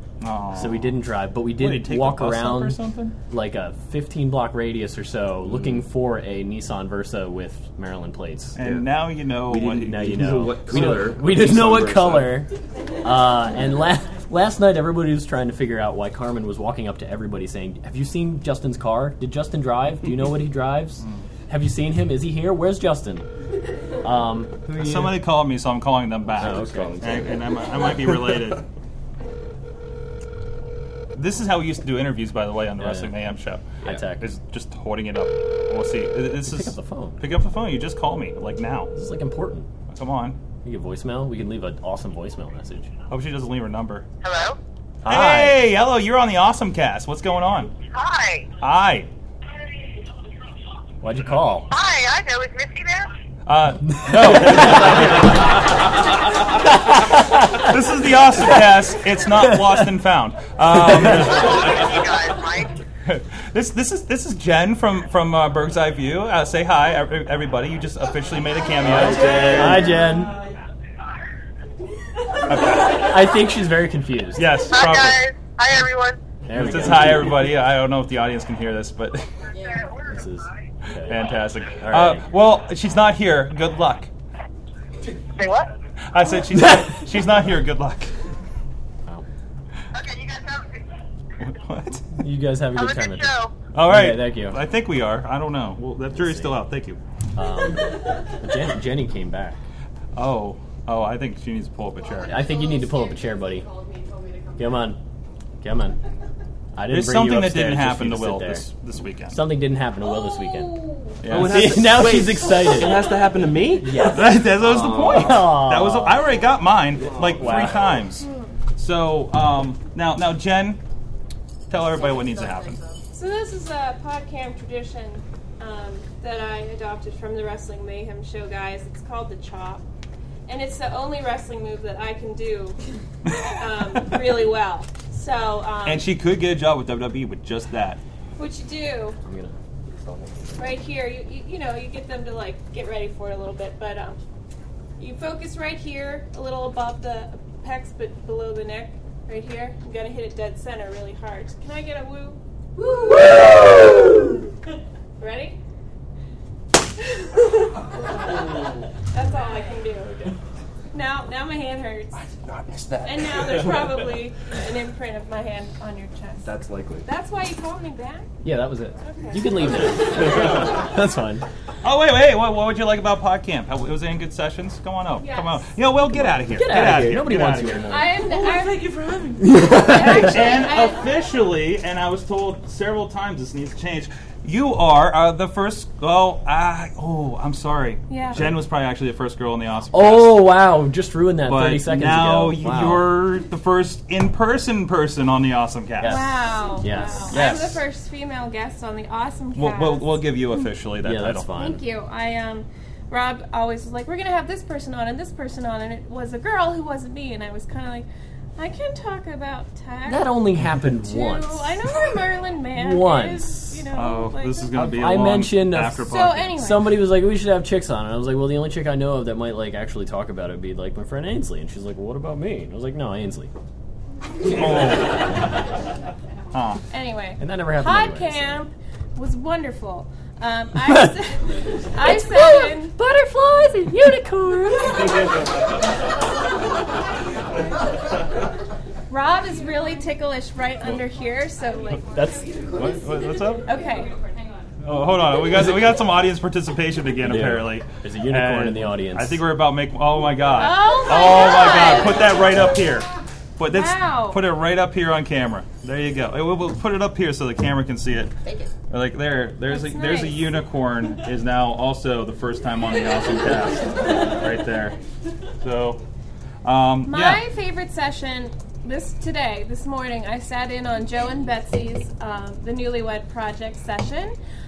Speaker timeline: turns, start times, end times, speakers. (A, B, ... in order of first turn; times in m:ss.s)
0:00.2-0:01.0 A
0:00.5-0:08.6 B
0:01.6-0:03.2 A
0:08.6-0:10.5 A
0:08.6-0:08.9 C
0:09.5-0:12.4 C
0:09.8-0:12.5 B
0:13.0-0:23.3 B
0:24.0-0:25.2 B
0:24.8-0:28.6 A
0:26.3-0:28.1 C
0:26.4-0:27.0 B
0:31.2-0:38.9 A
0:32.8-0:33.2 B
0:33.8-0:34.3 B
0:36.5-0:37.2 B
0:39.0-0:39.7 B
0:39.9-0:40.4 A
0:40.6-0:42.9 B
0:43.1-0:44.1 A
0:44.2-0:44.6 D
0:45.0-0:45.6 B
0:45.0-0:47.7 A
0:47.9-0:48.5 D
0:48.6-0:49.1 A
0:51.0-0:51.7 B
0:51.7-0:53.1 D
0:53.5-0:55.4 A
0:54.1-0:55.1 B
0:57.4-1:01.6 A
0:59.5-0:59.8 B
1:00.9-1:01.2 B
1:01.4-1:02.7 D
1:03.1-1:09.9 A
1:08.9-1:10.3 B
1:12.5-1:13.1 A
1:12.9-1:14.6 B
1:14.4-1:15.2 A
1:14.7-1:16.2 D
1:16.5-1:17.5 B
1:16.5-1:19.3 A
1:19.6-1:19.9 D
1:20.0-1:22.3 B
1:21.0-1:24.1 A
1:25.4-1:25.7 D
1:26.1-1:28.1 A
1:29.9-1:30.8 D
1:31.4-1:32.1 A
1:32.2-1:34.6 B
1:32.7-1:33.5 D
1:33.7-1:37.0 A
1:36.1-1:36.6 B
1:37.4-1:39.6 B
1:40.2-1:42.5 A
1:42.2-1:43.7 B
1:44.6-1:45.0 B
1:45.6-1:46.0 B
1:46.8-1:48.7 B
1:46.9-1:49.4 A
1:49.3-1:53.1 B
1:50.0-1:51.2 E
1:51.2-1:52.0 A
1:51.2-1:55.6 C
1:53.8-1:56.3 B
1:54.0-2:00.8 A
1:56.9-1:57.9 C
1:57.3-1:58.0 B
1:58.2-1:58.5 E
2:01.7-2:02.8 A
2:03.1-2:09.8 E
2:10.5-2:12.8 E
2:13.3-2:16.1 E
2:15.8-2:18.0 A
2:18.4-2:19.2 E
2:19.2-2:19.6 B
2:20.1-2:20.7 B
2:20.6-2:24.2 E
2:25.0-2:34.5 E
2:35.2-2:35.6 E
2:37.0-2:38.1 E
2:39.1-2:40.1 E
2:40.0-2:40.3 B
2:40.9-2:42.2 E
2:42.1-2:44.1 C
2:43.0-2:46.5 E
2:46.4-2:47.1 C
2:47.0-2:48.3 E
2:48.4-2:51.4 B
2:49.0-2:49.9 E
2:50.2-2:50.8 A
2:51.8-2:58.0 A
2:55.2-2:55.8 E
2:56.1-2:58.2 B
2:57.9-3:01.1 E
2:59.4-3:00.4 B
2:59.8-3:10.4 A
3:08.1-3:08.5 E
3:09.9-3:13.1 B
3:11.5-3:16.3 A
3:16.0-3:17.7 B
3:16.0-3:20.6 E
3:17.3-3:17.8 A
3:19.6-3:21.5 A
3:21.0-3:21.8 B
3:21.5-3:34.8 E
3:30.1-3:32.0 B
3:32.7-3:33.9 B
3:33.9-3:36.6 A
3:34.7-3:43.5 B
3:36.0-3:37.1 E
3:44.4-3:45.4 A
3:46.5-3:46.8 A
3:46.9-3:53.0 E
3:47.4-3:48.6 B
3:50.9-3:51.1 B
3:52.0-3:55.2 B
3:59.1-4:02.6 E
4:02.0-4:02.6 B
4:02.7-4:03.7 A
4:03.6-4:04.2 E
4:04.8-4:18.3 A
4:07.2-4:09.5 B
4:10.6-4:12.5 E
4:13.7-4:14.4 E
4:18.9-4:25.0 A
4:19.7-4:20.5 E
4:25.6-4:26.0 A
4:26.6-4:27.4 A
4:27.0-4:34.4 E